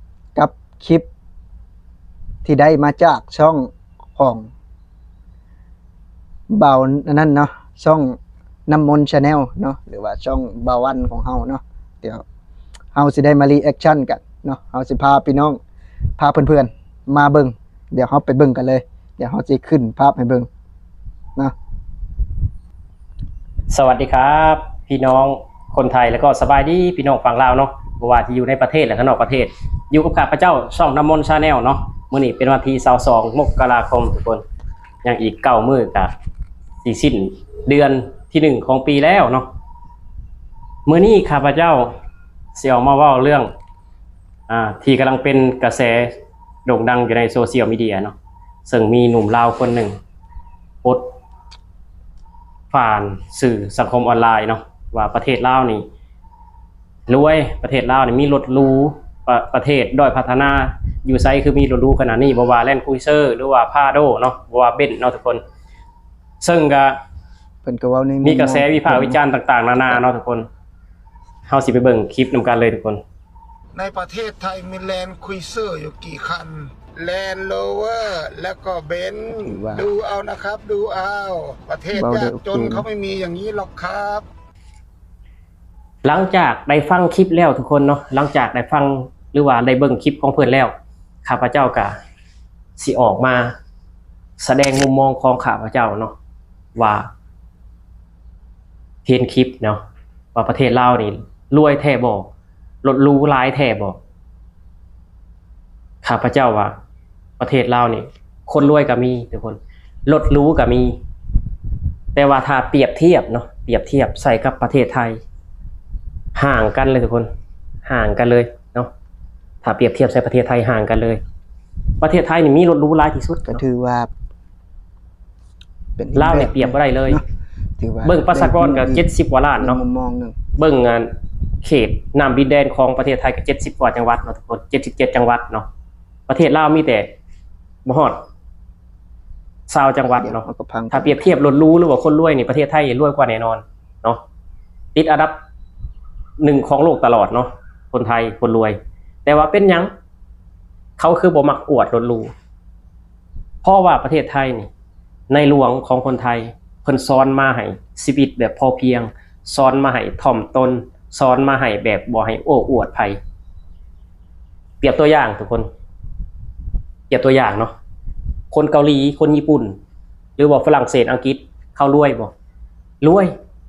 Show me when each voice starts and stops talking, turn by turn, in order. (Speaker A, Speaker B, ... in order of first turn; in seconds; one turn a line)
Speaker A: 0.3-1.1
Speaker A: 2.4-4.5
Speaker A: 6.5-12.2
Speaker A: 12.9-15.6
Speaker A: 16.2-20.5
Speaker B: 23.7-34.4
Speaker B: 35.0-36.1
Speaker B: 36.8-39.5
Speaker B: 40.9-41.9
Speaker B: 42.5-43.5
Speaker B: 44.5-48.1
Speaker B: 48.6-50.0
Speaker B: 50.8-51.1
Speaker B: 52.7-55.9
Speaker B: 57.1-65.4
Speaker B: 66.4-67.0
Speaker A: 67.6-69.2
Speaker B: 68.2-70.5
Speaker B: 71.5-73.0
Speaker C: 73.8-84.3
Speaker A: 79.4-79.9
Speaker A: 81.9-82.9
Speaker B: 86.0-90.7
Speaker B: 91.2-92.0
Speaker B: 92.8-93.5
Speaker B: 94.4-96.2
Speaker B: 96.8-97.1
Speaker B: 99.0-99.8
Speaker B: 100.3-102.3
Speaker B: 102.8-104.0
Speaker B: 106.0-106.8
Speaker B: 107.4-111.0
Speaker B: 112.2-115.2
Speaker B: 116.4-117.3
Speaker B: 117.8-118.9
Speaker B: 119.6-121.2
Speaker B: 122.0-123.6
Speaker A: 123.5-124.1
Speaker A: 126.0-127.2
Speaker B: 126.2-127.2
Speaker A: 127.8-129.0
Speaker B: 128.0-129.8
Speaker A: 129.6-130.4
Speaker B: 130.6-131.1
Speaker B: 131.6-135.7
Speaker B: 136.3-137.1
Speaker B: 137.8-138.2
Speaker B: 139.7-144.2
Speaker A: 140.2-141.2
Speaker B: 144.9-145.4
Speaker B: 146.4-149.9
Speaker B: 151.0-152.3
Speaker B: 153.6-154.7
Speaker B: 155.3-163.2
Speaker B: 164.8-165.7
Speaker B: 167.1-167.7
Speaker B: 168.5-169.8
Speaker B: 170.4-172.3
Speaker B: 173.0-173.3